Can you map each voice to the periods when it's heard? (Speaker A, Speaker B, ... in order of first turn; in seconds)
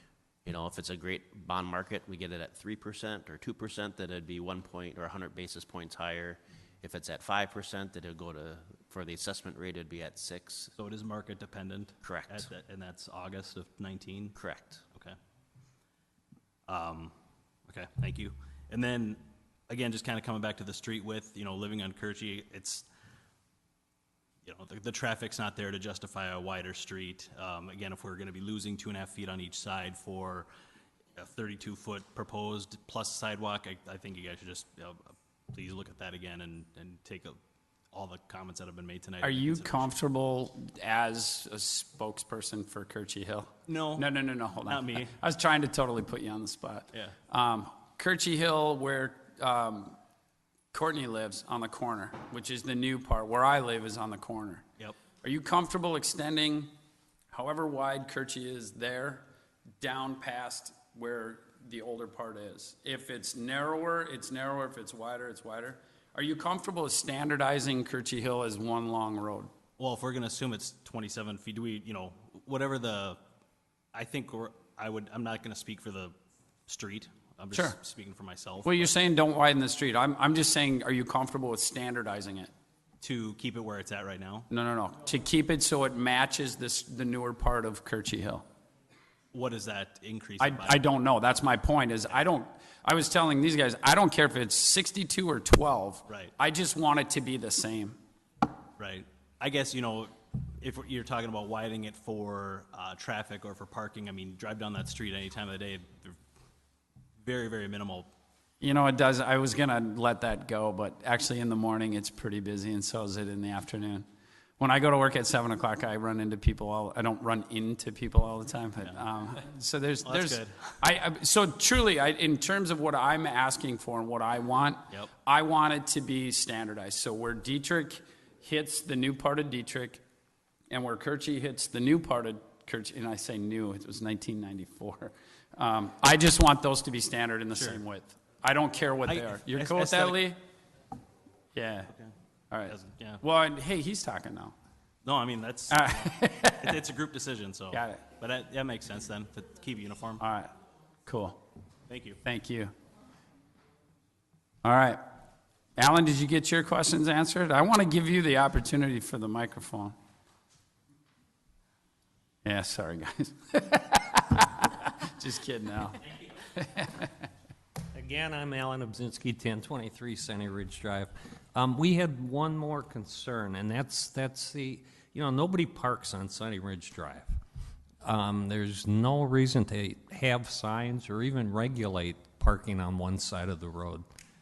Speaker A: 0.4-10.7, 12.0-12.5, 14.3-14.8
Speaker B: 10.8-14.3, 16.7-17.1, 17.7-22.9, 24.4-30.5, 31.1-37.4, 37.9-39.9, 43.7-44.1, 44.6-45.1, 69.8-73.2, 73.9-76.1, 76.7-78.9, 83.0-84.5, 89.3-90.8, 96.1-96.3, 98.8-106.2, 107.2-108.1, 120.0-120.5, 137.5-137.8, 139.1-140.3, 142.7-143.2, 145.0-150.2, 151.9-152.2
Speaker C: 39.2-50.0, 50.7-54.6, 55.2-56.7, 57.3-59.2, 59.8-69.5, 78.6-82.5, 84.5-88.4, 90.4-98.0, 108.6-114.0, 114.6-130.0, 130.7-140.4, 141.5-141.9, 142.5-144.5, 145.7-146.8, 147.7-148.0, 150.2-150.5, 151.0-151.4, 152.2-152.7, 154.6-155.0, 155.8-159.9, 162.4-166.1
Speaker D: 167.9-177.3, 178.0-184.0